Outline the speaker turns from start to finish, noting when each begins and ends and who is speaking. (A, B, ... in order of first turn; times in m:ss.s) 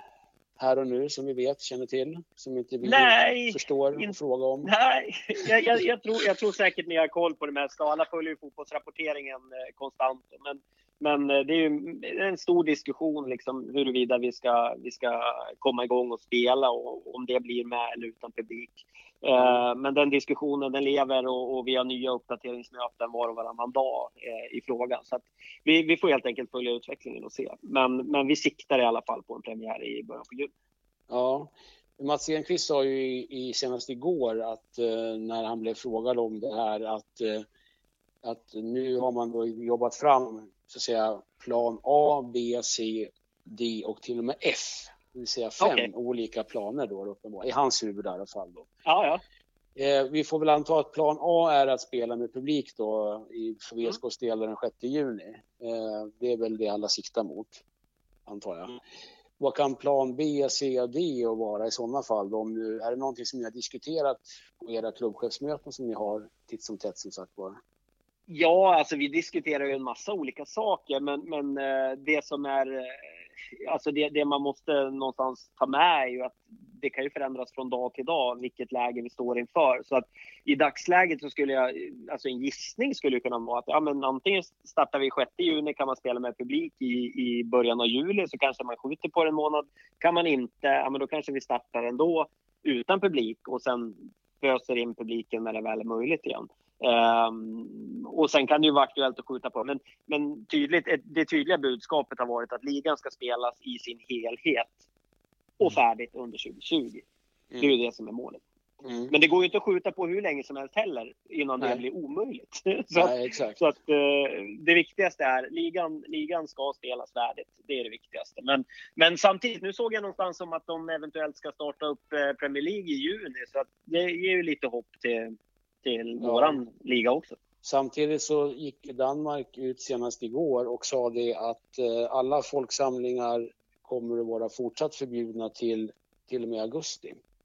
0:00.6-0:04.7 A
0:02.8-0:30.5 B
0:19.4-0:19.6 A
0:31.1-0:37.4 A
0:38.2-0:48.7 A
0:45.6-0:45.9 B
0:48.8-0:49.2 B
0:49.8-0:57.6 A
0:58.2-0:58.8 A
0:59.4-1:07.6 A
1:08.3-1:13.0 B
1:13.6-1:44.8 B
1:45.6-1:47.0 B
1:47.6-1:48.4 B
1:48.8-1:49.1 A
1:49.1-2:07.4 B
1:53.0-1:53.6 A
2:06.2-2:06.6 A
2:07.6-2:17.2 A